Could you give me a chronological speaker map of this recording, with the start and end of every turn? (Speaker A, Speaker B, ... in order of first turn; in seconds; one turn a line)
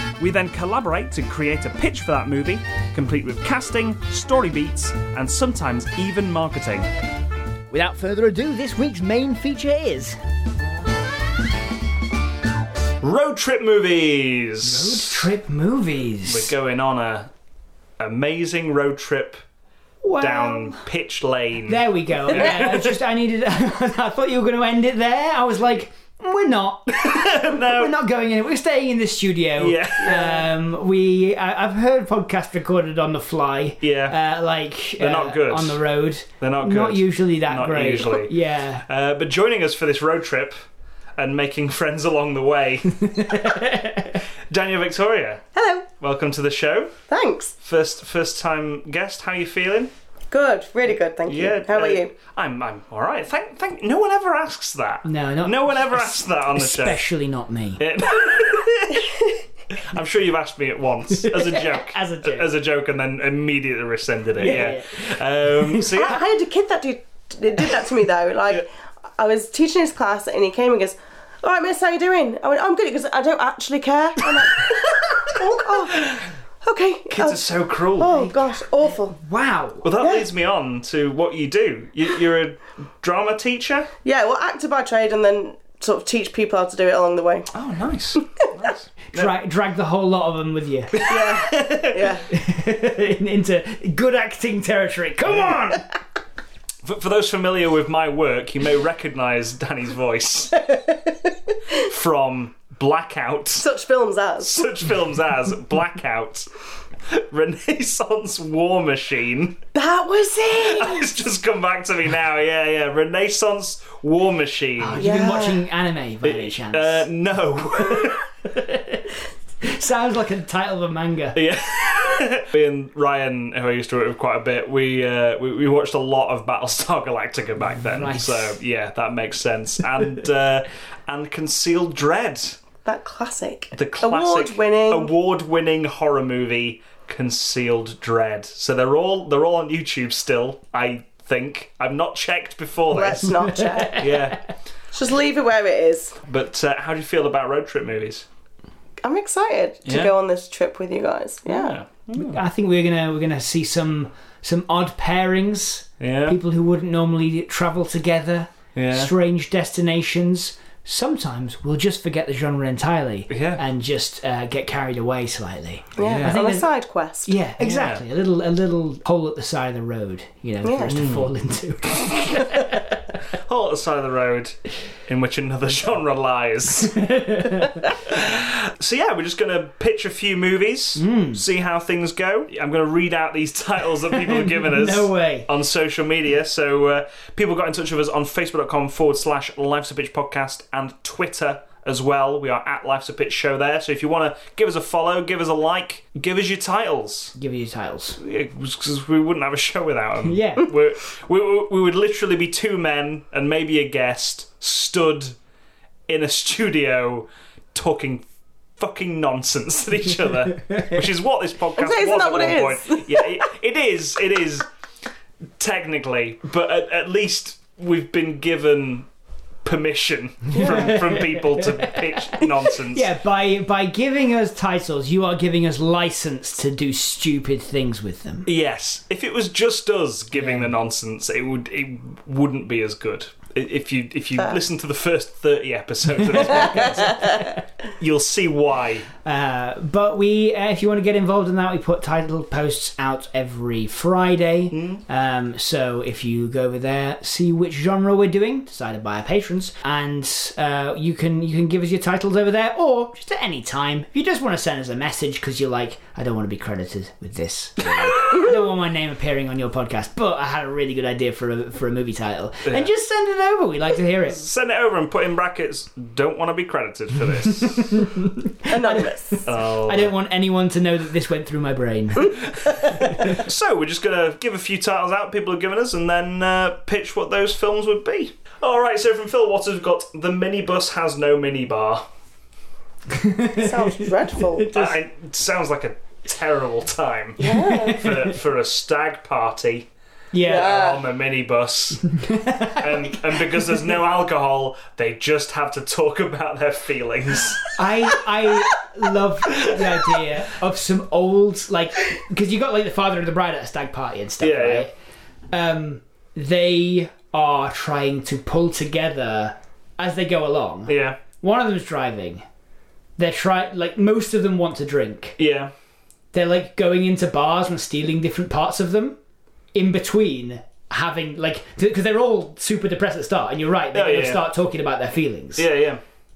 Speaker A: 0.2-6.9
Speaker B: 7.7-10.1
Speaker A: 13.0-15.3
Speaker C: 14.6-16.5
Speaker A: 16.3-17.3
Speaker A: 18.0-19.4
Speaker C: 20.0-20.8
Speaker A: 20.2-23.0
Speaker C: 21.7-38.8
Speaker A: 27.0-27.9
Speaker A: 29.6-30.2
Speaker D: 30.0-30.4
Speaker A: 33.8-34.2
Speaker A: 35.0-35.8
Speaker A: 36.4-40.6
Speaker A: 41.2-43.5
Speaker C: 42.9-44.2
Speaker A: 44.5-46.9
Speaker D: 45.5-45.8
Speaker D: 47.1-47.5
Speaker A: 47.6-49.9
Speaker D: 50.3-52.1
Speaker A: 51.3-57.1
Speaker C: 55.0-57.8
Speaker A: 57.8-66.2
Speaker C: 61.1-62.5
Speaker C: 64.4-65.2
Speaker D: 65.9-68.7
Speaker D: 69.2-79.2
Speaker A: 75.6-76.3
Speaker A: 77.1-78.1
Speaker C: 78.0-79.9
Speaker A: 79.8-83.9
Speaker D: 84.0-87.5
Speaker A: 87.5-89.3
Speaker D: 88.2-88.5
Speaker C: 89.1-90.9
Speaker A: 90.9-92.2
Speaker D: 91.1-92.2
Speaker C: 92.3-95.8
Speaker A: 96.8-100.6
Speaker A: 101.7-103.7
Speaker D: 103.6-104.7
Speaker A: 104.4-106.5
Speaker A: 107.1-109.6
Speaker D: 109.7-111.1
Speaker A: 110.6-115.0
Speaker C: 114.8-117.1
Speaker D: 115.0-115.7
Speaker A: 116.2-118.2
Speaker C: 118.5-121.4
Speaker A: 121.3-132.6
Speaker C: 127.9-128.6
Speaker D: 132.8-135.1
Speaker A: 133.7-143.3
Speaker D: 142.9-144.0
Speaker C: 143.3-144.4
Speaker A: 144.0-144.4
Speaker D: 144.9-146.2
Speaker A: 146.2-148.2
Speaker D: 149.0-151.8
Speaker A: 149.8-150.1
Speaker A: 151.5-152.4
Speaker C: 152.1-166.7
Speaker A: 156.0-156.4
Speaker A: 158.8-159.1
Speaker A: 163.3-163.6
Speaker D: 166.0-167.3
Speaker A: 166.0-166.3
Speaker C: 167.2-173.2
Speaker A: 167.6-168.0
Speaker D: 170.6-171.0
Speaker A: 170.9-171.3
Speaker A: 172.0-172.7
Speaker A: 173.3-177.0
Speaker C: 176.8-177.9
Speaker A: 177.6-197.3
Speaker C: 181.0-181.4
Speaker C: 184.1-185.5
Speaker C: 197.3-198.2
Speaker A: 198.2-205.4
Speaker C: 200.2-200.7
Speaker A: 206.1-208.2
Speaker A: 208.8-214.7
Speaker C: 210.5-211.0
Speaker D: 211.7-213.4
Speaker A: 215.6-219.1
Speaker A: 219.6-223.1
Speaker D: 220.5-220.9
Speaker C: 220.5-228.5
Speaker A: 228.4-239.1
Speaker C: 230.3-230.7
Speaker C: 236.2-237.4
Speaker C: 239.2-264.4
Speaker A: 244.7-245.0
Speaker A: 257.8-258.5
Speaker A: 262.6-262.9
Speaker A: 264.4-268.0
Speaker C: 267.6-273.4
Speaker D: 268.7-269.4
Speaker A: 269.5-270.1
Speaker A: 272.5-282.0
Speaker C: 283.1-284.7
Speaker D: 283.6-285.0
Speaker A: 284.7-289.9
Speaker C: 287.4-288.4
Speaker D: 287.4-288.1
Speaker C: 290.3-290.7
Speaker D: 290.4-291.0
Speaker A: 290.5-292.0
Speaker C: 292.1-293.8
Speaker A: 292.8-298.2
Speaker C: 297.8-304.9
Speaker A: 299.6-300.1
Speaker A: 304.4-304.9
Speaker C: 305.5-312.4
Speaker A: 310.9-311.2
Speaker C: 313.2-315.4
Speaker A: 315.4-315.7
Speaker C: 316.3-319.2
Speaker C: 319.7-325.6
Speaker A: 323.9-324.4
Speaker A: 325.6-326.0